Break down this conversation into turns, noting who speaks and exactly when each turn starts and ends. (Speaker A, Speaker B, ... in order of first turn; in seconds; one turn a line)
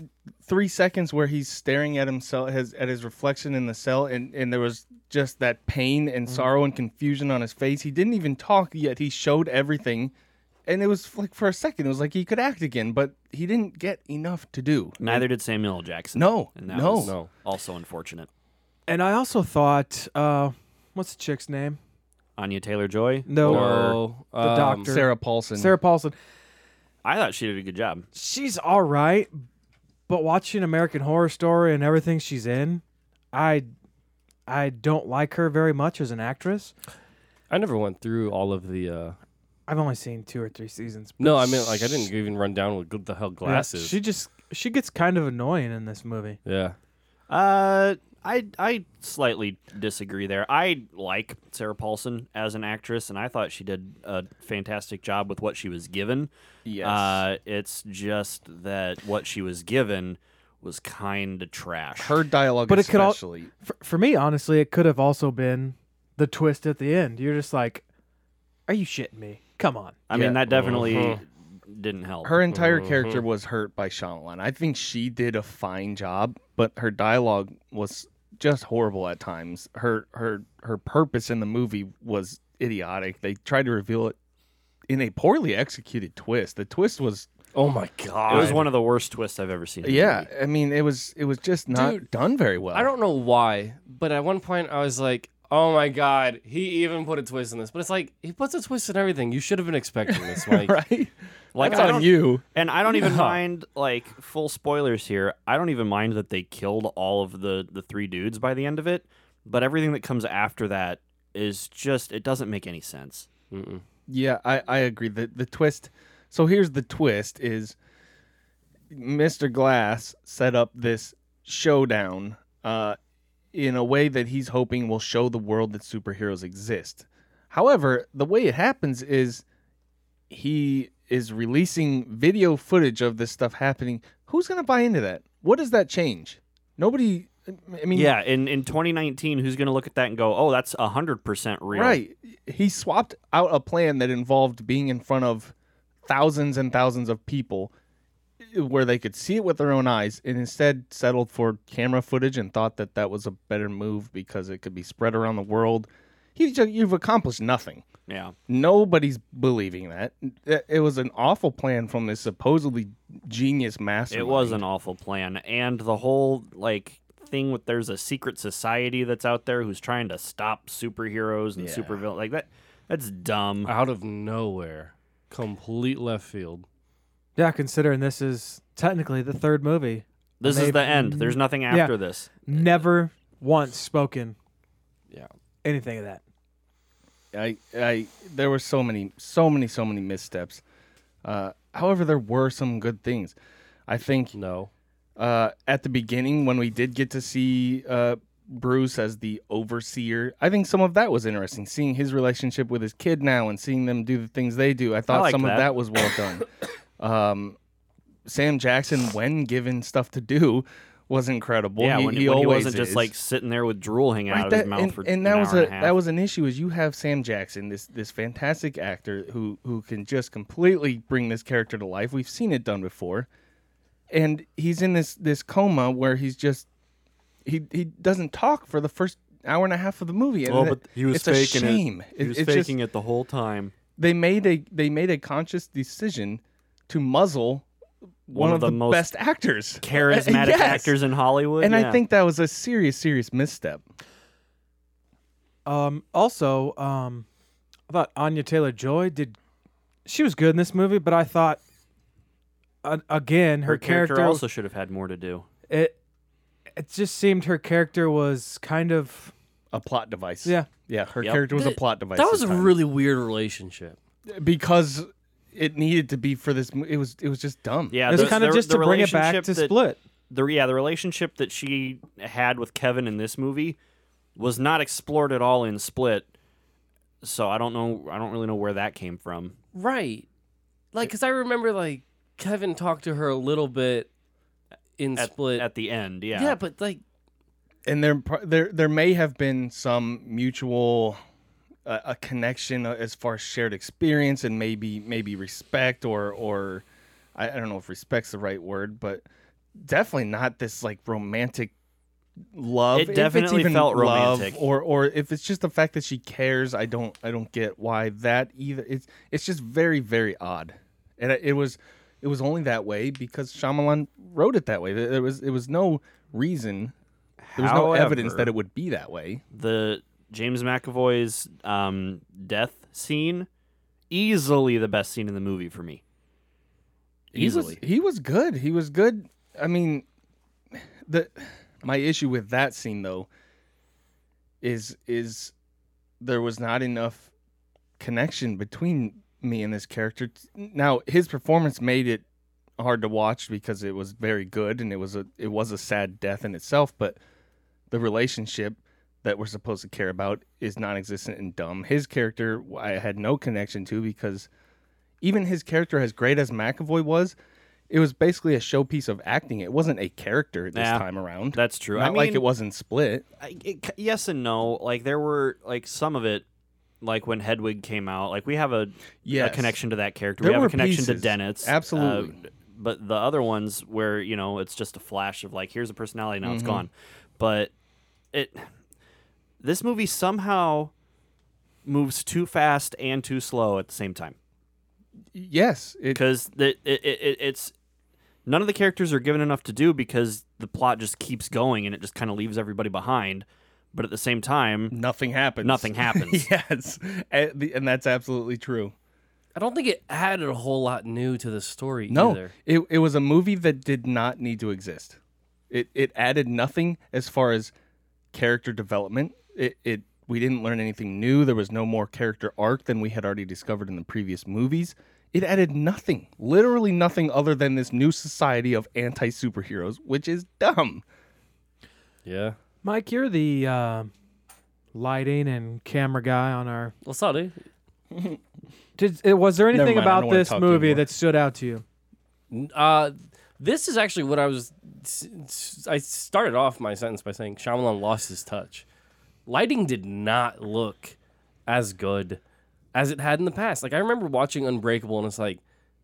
Speaker A: 0.4-10.1
Speaker A: 10.7-15.3
Speaker B: 15.0-18.3
Speaker A: 16.1-17.1
Speaker C: 17.0-17.3
Speaker D: 18.9-21.8
Speaker B: 22.4-23.9
Speaker D: 23.3-23.7
Speaker C: 23.4-24.9
Speaker D: 24.4-26.1
Speaker A: 24.9-25.8
Speaker B: 27.0-28.1
Speaker D: 28.1-29.4
Speaker D: 30.1-33.7
Speaker D: 34.5-36.7
Speaker C: 37.5-39.2
Speaker D: 39.7-42.1
Speaker C: 41.2-44.0
Speaker D: 43.4-46.4
Speaker C: 46.4-46.8
Speaker B: 47.3-56.3
Speaker A: 56.6-57.2
Speaker B: 56.8-62.2
Speaker A: 62.0-63.5
Speaker D: 62.7-67.8
Speaker D: 68.7-70.0
Speaker B: 70.1-72.4
Speaker A: 70.1-70.8
Speaker C: 70.5-71.2
Speaker A: 72.2-84.2
Speaker C: 72.5-73.2
Speaker A: 84.9-87.3
Speaker C: 87.5-88.7
Speaker A: 88.3-88.6
Speaker B: 88.3-90.3
Speaker A: 89.8-92.9
Speaker C: 91.7-92.0
Speaker C: 92.7-100.8
Speaker A: 100.1-102.4
Speaker B: 101.5-113.3
Speaker C: 101.6-102.1
Speaker C: 102.9-103.4
Speaker C: 113.5-113.8
Speaker A: 114.1-117.8
Speaker A: 118.9-123.0
Speaker A: 123.5-129.4
Speaker A: 130.3-138.1
Speaker B: 137.9-142.0
Speaker A: 141.7-145.5
Speaker A: 146.0-147.7
Speaker A: 148.4-157.8
Speaker B: 158.1-158.3
Speaker A: 158.5-164.6
Speaker B: 164.1-173.7
Speaker A: 171.6-172.0
Speaker C: 173.7-176.7
Speaker D: 177.3-181.9
Speaker B: 180.4-182.7
Speaker D: 182.4-184.3
Speaker D: 185.6-186.2
Speaker A: 187.3-190.6
Speaker A: 191.2-193.3
Speaker A: 193.9-194.3
Speaker C: 194.3-194.7
Speaker A: 195.2-206.5
Speaker B: 205.1-205.7
Speaker A: 207.0-207.6
Speaker A: 208.2-213.1
Speaker B: 211.8-215.9
Speaker A: 214.3-223.3
Speaker A: 224.1-226.7
Speaker A: 227.4-232.7
Speaker B: 230.4-233.7
Speaker A: 234.0-237.7
Speaker A: 238.3-240.9
Speaker B: 238.3-239.1
Speaker B: 239.8-242.0
Speaker A: 241.6-243.8
Speaker D: 245.7-247.2
Speaker D: 247.9-249.4
Speaker D: 250.1-251.6
Speaker D: 252.8-254.4
Speaker B: 253.6-255.4
Speaker D: 255.7-255.9
Speaker D: 256.8-259.3
Speaker A: 259.7-262.8
Speaker C: 261.5-264.0
Speaker A: 264.3-268.4
Speaker B: 267.9-269.8
Speaker D: 268.1-270.0
Speaker B: 270.3-273.8
Speaker B: 274.4-276.3
Speaker B: 277.2-279.5
Speaker C: 279.7-280.3
Speaker C: 280.9-284.1
Speaker C: 285.0-285.7
Speaker B: 285.1-286.6
Speaker C: 286.3-287.0
Speaker A: 287.9-291.2
Speaker A: 291.9-299.2
Speaker A: 299.8-301.7
Speaker A: 302.5-316.9
Speaker B: 302.9-304.6
Speaker B: 317.4-318.5
Speaker A: 317.6-319.4
Speaker B: 319.5-323.5
Speaker B: 324.1-326.0
Speaker A: 327.3-330.1
Speaker B: 327.3-327.8
Speaker A: 330.8-333.3
Speaker A: 334.6-335.5
Speaker A: 336.2-337.3
Speaker A: 338.0-342.2
Speaker A: 342.8-347.2
Speaker A: 347.9-354.5
Speaker A: 355.2-357.3
Speaker A: 357.9-363.2
Speaker B: 360.7-362.4
Speaker B: 363.4-366.4
Speaker B: 367.0-377.7
Speaker A: 369.2-369.8
Speaker A: 370.4-372.4
Speaker A: 376.4-376.9
Speaker B: 378.3-378.7
Speaker B: 379.6-380.9
Speaker B: 381.8-384.4
Speaker A: 385.3-386.2
Speaker B: 386.1-387.7
Speaker B: 388.4-394.9
Speaker A: 394.9-398.9
Speaker B: 395.6-396.4
Speaker C: 399.5-402.5
Speaker A: 402.1-405.2
Speaker A: 405.7-407.7
Speaker A: 408.3-421.0
Speaker C: 422.2-422.6
Speaker D: 422.8-424.1
Speaker D: 424.9-426.9
Speaker C: 427.0-427.6
Speaker A: 428.1-428.4
Speaker D: 429.0-431.8
Speaker A: 429.7-431.0
Speaker C: 432.5-438.8
Speaker C: 439.4-441.1
Speaker C: 441.7-442.4
Speaker C: 442.9-445.6